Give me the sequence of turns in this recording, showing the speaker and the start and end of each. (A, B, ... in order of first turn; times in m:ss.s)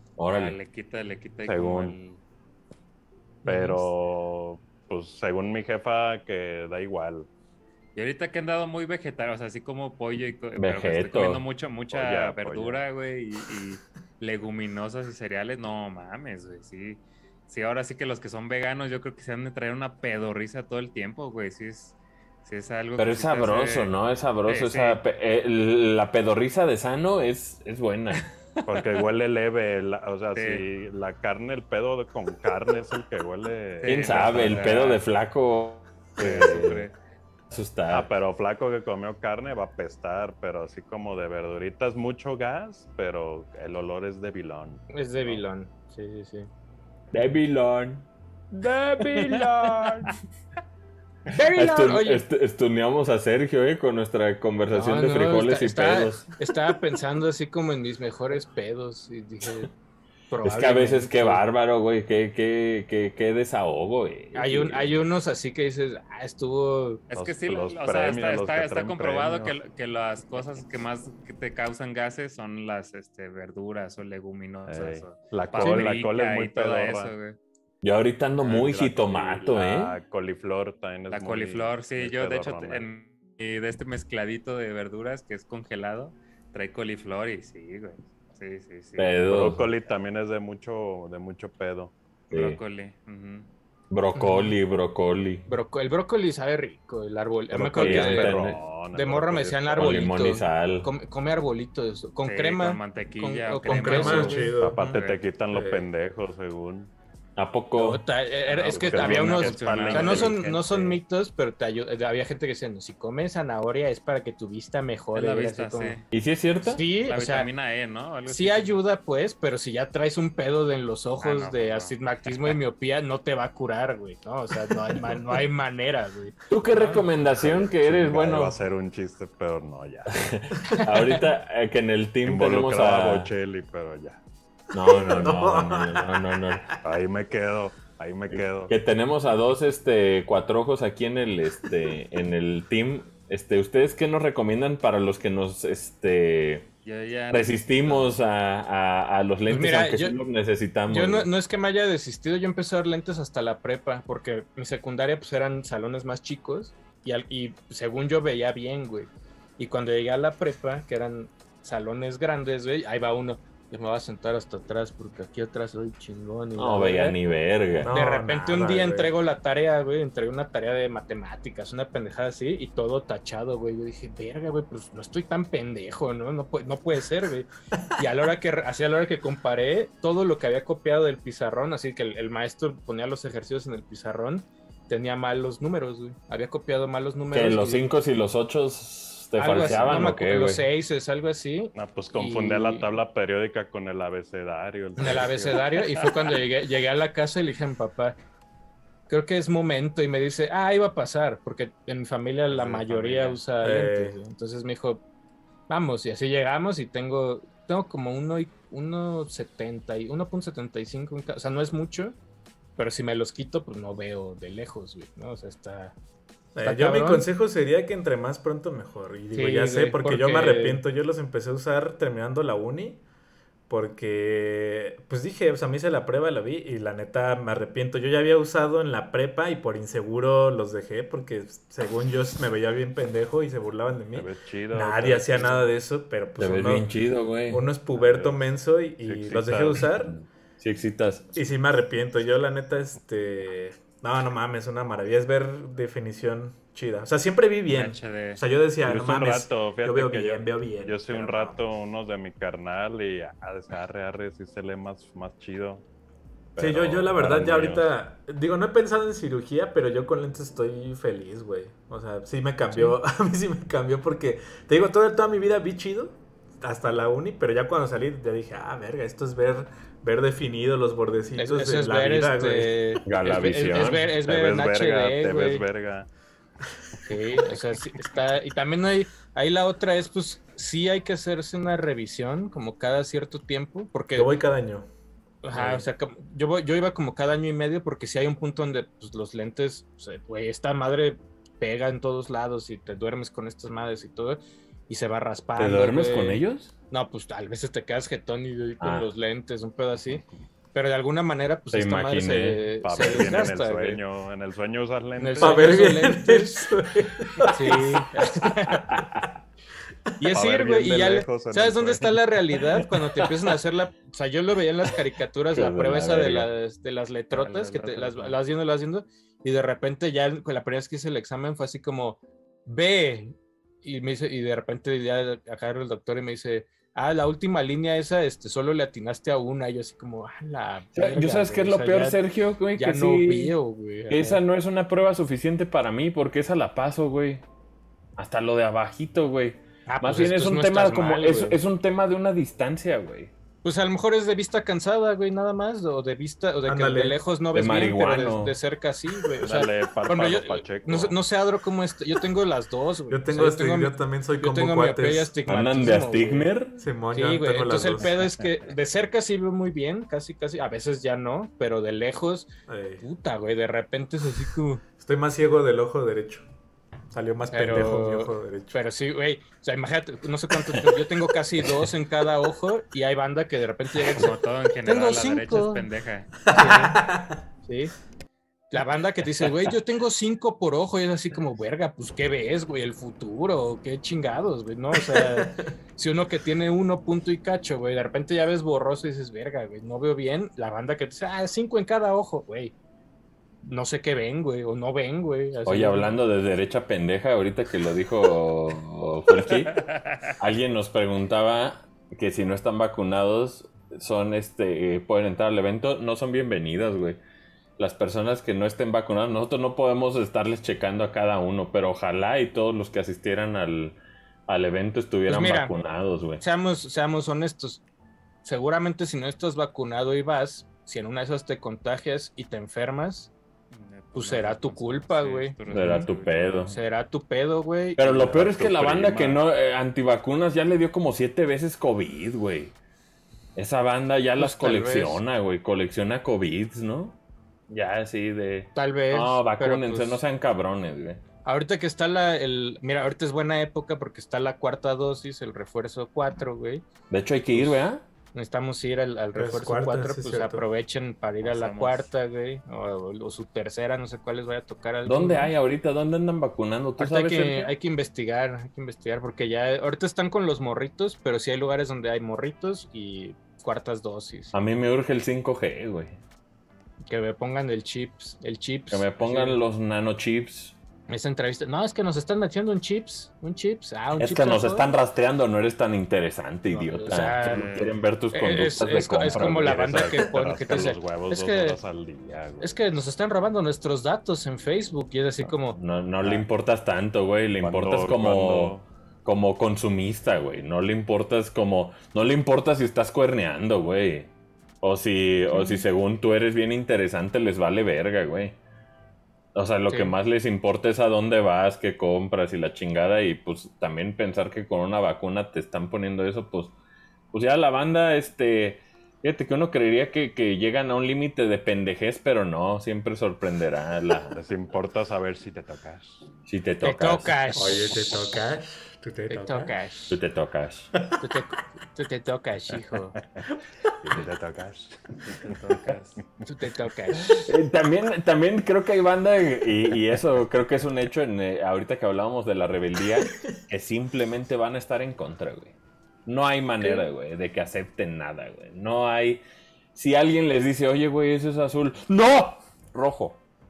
0:00.2-0:00.6 A
0:00.3-0:02.2 B
0:01.4-0:02.0 C
0:03.4-0:03.8 D
0:03.4-0:07.3 C
0:07.9-0:25.0 B
0:10.6-0:11.4 A
0:11.9-0:12.8 C
0:23.0-0:28.3 A
0:28.6-0:29.0 B
0:28.6-0:35.0 C
0:30.3-0:30.7 B
0:33.8-0:35.0 B
0:33.8-0:36.9 A
0:36.2-0:36.7 C
0:36.3-0:36.9 B
0:37.5-0:38.1 A
0:37.9-0:45.4 C
0:44.9-0:46.5 D
0:47.1-0:48.1 A
0:48.6-0:49.7 A
0:48.6-0:50.1 C
0:49.0-0:49.9 D
0:51.3-0:52.2 D
0:51.4-0:56.8 A
0:54.7-0:59.7 D
1:00.3-1:01.4 D
1:00.4-1:04.9 A
1:04.3-1:07.0 D
1:07.1-1:17.4 B
1:07.1-1:09.5 C
1:14.7-1:17.1 C
1:15.6-1:15.9 D
1:17.8-1:20.0 A
1:18.4-1:22.8 C
1:21.1-1:29.2 B
1:29.0-1:29.7 A
1:29.2-1:31.9 C
1:32.3-1:33.5 B
1:32.3-1:32.6 A
1:33.9-1:35.5 A
1:34.1-1:34.6 D
1:35.5-1:38.4 D
1:37.5-1:40.0 C
1:37.8-1:38.6 A
1:38.9-1:44.5 D
1:39.7-1:40.9 A
1:42.2-1:45.2 B
1:43.7-1:45.0 E
1:44.2-1:46.9 C
1:45.5-1:45.9 E
1:47.4-1:48.0 A
1:47.7-1:56.0 D
1:48.4-1:50.4 B
1:48.6-1:51.0 C
1:55.1-1:56.0 B
1:56.1-1:56.8 A
1:56.6-1:57.5 D
1:57.0-1:58.8 B
1:58.3-2:06.4 D
2:01.2-2:02.6 B
2:06.5-2:08.6 A
2:07.2-2:10.4 C
2:10.1-2:13.3 A
2:10.7-2:11.2 D
2:12.2-2:14.2 C
2:14.7-2:16.8 A
2:14.7-2:16.7 E
2:16.8-2:18.7 C
2:18.3-2:26.7 A
2:26.8-2:28.2 B
2:27.3-2:31.3 A
2:29.5-2:30.2 D
2:30.9-2:47.2 D
2:46.6-2:47.9 A
2:47.8-2:49.1 E
2:47.9-3:07.8 D
3:07.3-3:10.6 A
3:09.4-3:12.8 D
3:09.5-3:10.0 C
3:11.7-3:16.3 C
3:15.0-3:18.2 D
3:19.1-3:25.0 D
3:22.5-3:23.4 B
3:23.6-3:24.2 E
3:25.7-3:32.2 D
3:32.8-3:35.9 D
3:36.5-3:43.0 E
3:36.6-3:37.2 D
3:39.3-3:40.8 D
3:43.7-4:00.2 E
3:54.1-3:55.7 C
3:56.4-3:57.7 A
3:57.9-3:58.5 C
3:59.0-4:00.2 C
4:00.6-4:01.3 A
4:01.3-4:11.7 E
4:07.7-4:08.4 B
4:08.8-4:15.8 C
4:16.5-4:17.9 C
4:16.6-4:33.0 E
4:31.4-4:35.6 D
4:33.0-4:34.1 A
4:34.1-4:36.1 C
4:37.1-4:44.4 D
4:44.1-4:44.9 E
4:45.4-5:04.0 D
4:55.6-4:56.7 A
4:58.8-4:59.1 A
5:01.7-5:03.4 A
5:02.8-5:06.0 C
5:05.2-5:06.7 D
5:05.4-5:08.0 E
5:07.5-5:08.8 D
5:08.7-5:09.4 A
5:10.2-5:32.2 D
5:10.3-5:12.2 C
5:15.5-5:16.5 A
5:17.3-5:18.4 B
5:30.9-5:33.6 A
5:32.8-5:34.4 D
5:34.1-5:37.4 A
5:38.2-5:43.3 A
5:39.9-5:41.6 D
5:43.6-5:56.5 D
5:46.6-5:47.2 E
5:47.5-5:48.5 A
5:49.4-5:51.2 C
5:53.1-5:55.9 E
5:55.5-5:56.8 A
5:56.8-5:58.1 E
5:57.1-6:02.5 D
5:58.0-5:58.4 C
6:02.7-6:03.0 E
6:03.0-6:04.8 D
6:05.0-6:06.4 E
6:07.1-6:08.8 E
6:07.5-6:14.3 D
6:14.0-6:16.3 B
6:14.8-6:15.8 D
6:16.4-6:17.4 E
6:16.5-6:17.0 D
6:17.6-6:17.9 D
6:18.7-6:32.7 D
6:24.9-6:25.7 E
6:33.6-6:36.2 D
6:35.6-6:47.2 A
6:47.8-6:56.4 A
6:55.3-6:55.7 D
6:56.4-6:57.8 D
6:58.4-7:03.3 D
7:03.7-7:06.6 B
7:04.1-7:06.1 D
7:05.7-7:06.8 A
7:06.7-7:08.4 D
7:08.0-7:12.7 A
7:08.3-7:09.4 C
7:13.5-7:17.2 A
7:14.4-7:15.2 D
7:17.7-7:21.2 A
7:18.7-7:20.2 D
7:21.4-7:26.8 D
7:27.1-7:28.0 A
7:27.5-7:27.8 D
7:28.3-7:35.5 D
7:29.3-7:30.7 E
7:31.4-7:32.1 B
7:35.0-7:37.7 A
7:37.0-7:44.5 D
7:44.5-7:46.2 A
7:47.1-7:49.6 D
7:48.9-7:50.8 A
7:51.1-7:54.9 D
7:54.2-8:00.1 A
7:56.7-7:57.7 D
7:57.4-7:57.9 B
7:58.3-8:01.8 D
7:59.5-8:02.7 C
8:02.6-8:05.8 D
8:05.7-8:14.3 A
8:07.6-8:08.8 C
8:14.8-8:18.6 A
8:15.5-8:15.8 D
8:19.5-8:26.7 A
8:19.9-8:20.1 D
8:27.3-8:34.3 A
8:34.3-8:36.2 C
8:36.4-8:37.4 A
8:36.8-8:38.5 D
8:37.5-8:39.7 E
8:39.3-8:40.2 D
8:40.1-8:40.9 A
8:41.2-8:43.2 D
8:44.0-8:46.3 C
8:45.2-8:46.1 B
8:46.4-8:47.5 D
8:47.1-8:55.7 A
8:56.2-8:59.4 A
8:59.9-9:03.4 A